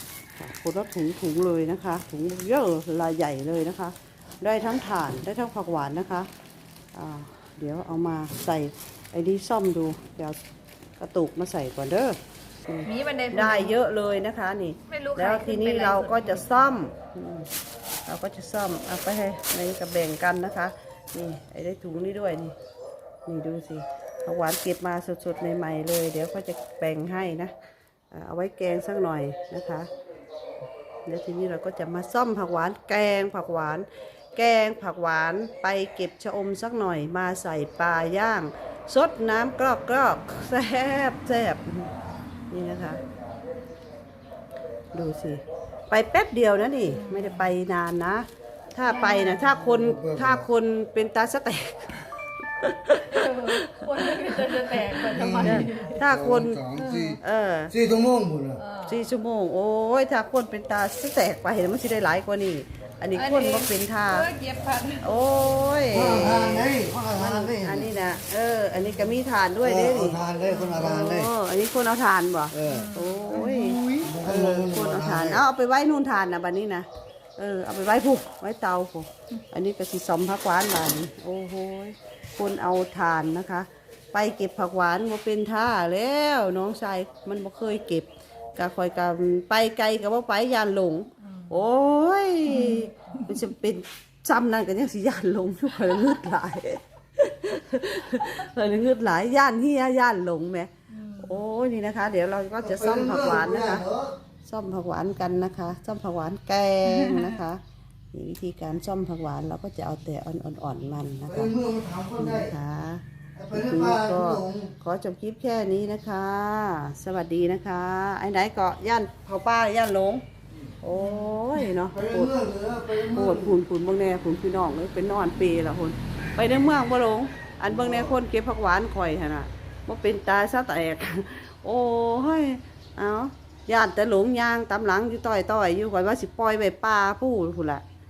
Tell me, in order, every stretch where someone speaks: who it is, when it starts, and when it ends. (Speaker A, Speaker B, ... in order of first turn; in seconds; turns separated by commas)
Speaker A: 0.3-6.3, Speaker A: 6.9-10.4, Speaker A: 11.0-17.5, Speaker B: 12.8-13.7, Speaker B: 14.9-16.4, Speaker A: 18.1-22.6, Speaker A: 23.2-27.5, Speaker A: 28.1-29.9, Speaker A: 31.0-41.9, Speaker A: 42.5-43.0, Speaker A: 44.9-57.7, Speaker B: 46.9-47.5, Speaker B: 48.9-49.5, Speaker C: 49.7-50.4, Speaker B: 53.1-56.0, Speaker C: 55.1-57.2, Speaker B: 56.7-57.2, Speaker C: 57.7-58.6, Speaker B: 58.6-59.0, Speaker A: 58.8-64.3, Speaker B: 63.1-65.1, Speaker A: 65.0-103.9, Speaker C: 65.9-67.9, Speaker C: 69.6-71.3, Speaker B: 70.5-70.8, Speaker C: 72.5-75.4, Speaker B: 72.7-73.5, Speaker B: 91.2-91.6, Speaker B: 92.5-93.2, Speaker B: 100.9-101.4, Speaker C: 102.6-104.1, Speaker A: 104.4-111.5, Speaker B: 107.0-107.4, Speaker C: 111.3-112.5, Speaker A: 112.2-120.2, Speaker C: 113.3-114.7, Speaker A: 120.8-137.8, Speaker B: 121.0-121.5, Speaker C: 121.9-123.5